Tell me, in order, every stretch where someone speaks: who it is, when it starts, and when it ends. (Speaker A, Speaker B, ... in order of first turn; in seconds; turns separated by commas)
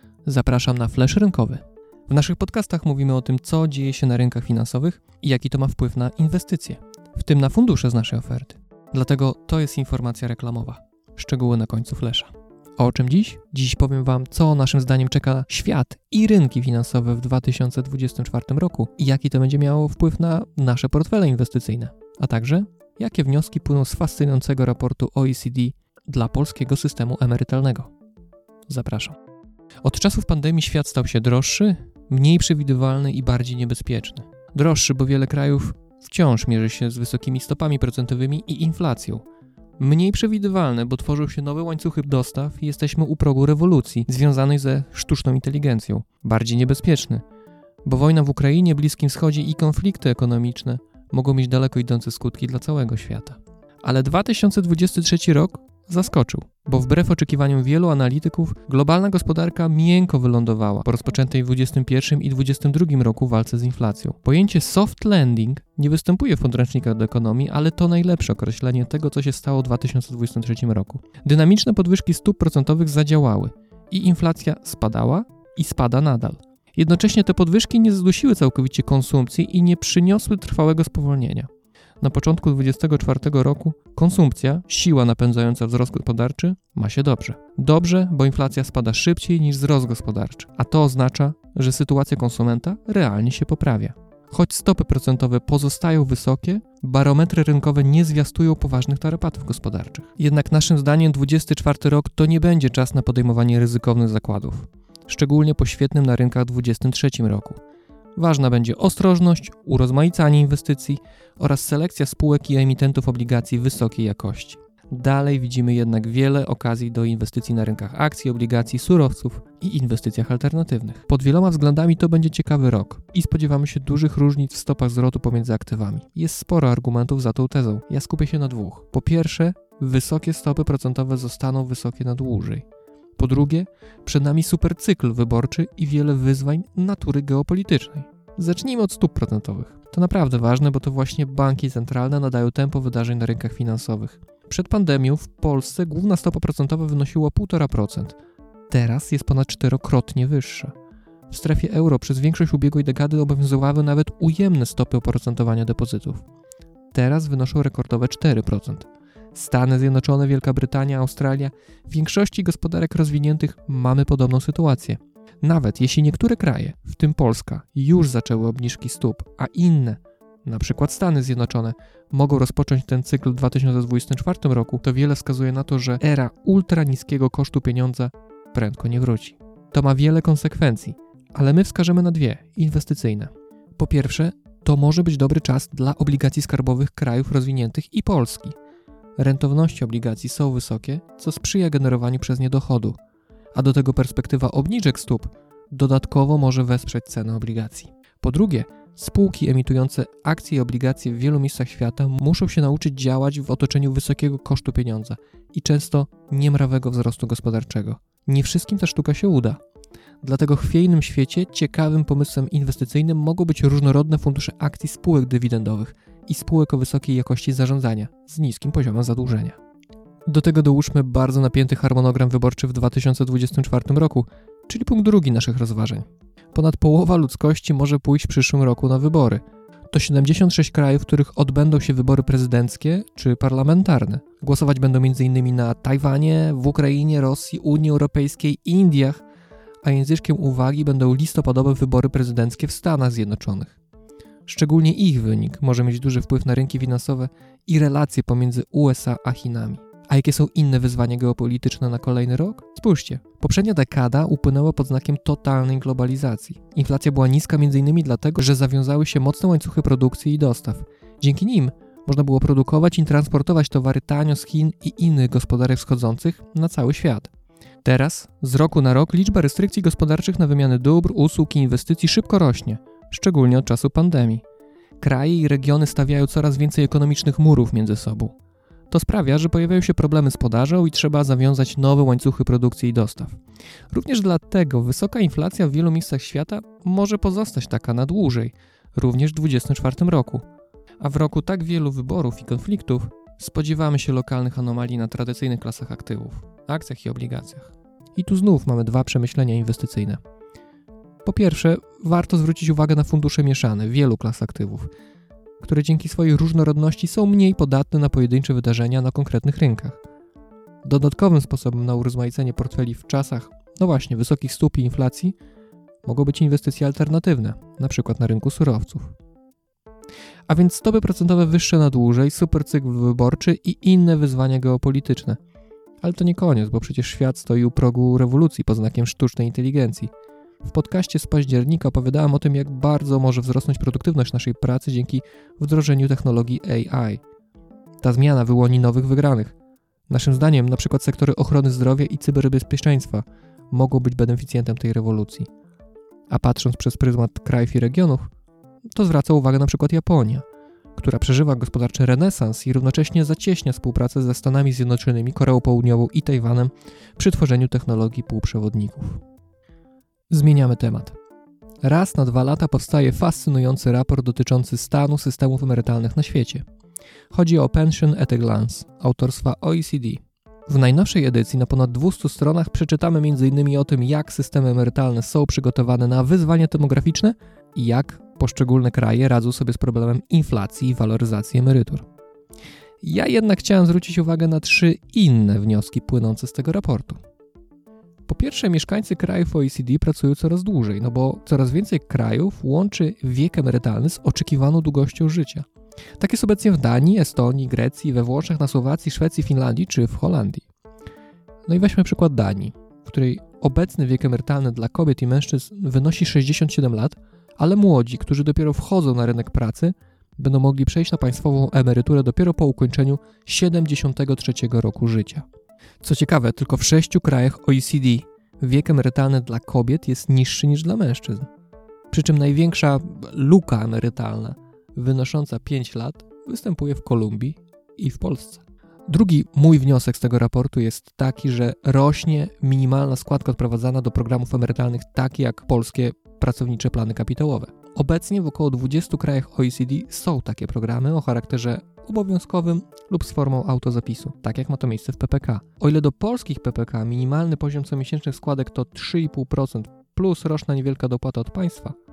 Speaker A: 0.2-27.9, Speaker A: 28.7-29.2, Speaker A: 29.8-39.2, Speaker A: 39.8-47.2, Speaker A: 47.8-81.5, Speaker A: 82.0-107.6, Speaker A: 108.2-132.7, Speaker A: 133.2-148.2, Speaker A: 148.7-150.7, Speaker A: 151.3-156.2, Speaker A: 156.9-188.5, Speaker A: 189.2-193.0, Speaker A: 193.5-209.6, Speaker A: 210.2-219.6, Speaker A: 220.2-239.2, Speaker A: 239.8-243.8, Speaker A: 244.5-267.3, Speaker A: 267.8-274.4, Speaker A: 275.0-278.4, Speaker A: 278.9-283.4, Speaker A: 283.9-290.4, Speaker A: 291.0-300.2, Speaker A: 301.2-304.9, Speaker A: 305.6-310.0, Speaker A: 310.8-315.4, Speaker A: 316.0-319.1, Speaker A: 320.5-325.4, Speaker A: 326.0-330.1, Speaker A: 330.6-337.2, Speaker A: 338.0-339.6, Speaker A: 340.1-345.5, Speaker A: 346.3-348.3, Speaker A: 348.9-350.4, Speaker A: 350.9-359.2, Speaker A: 360.3-361.1, Speaker A: 361.8-366.6, Speaker A: 367.3-382.1, Speaker A: 383.0-387.2, Speaker A: 388.3-395.7, Speaker A: 396.2-400.6, Speaker A: 401.6-415.4, Speaker A: 416.0-421.5, Speaker A: 422.1-451.9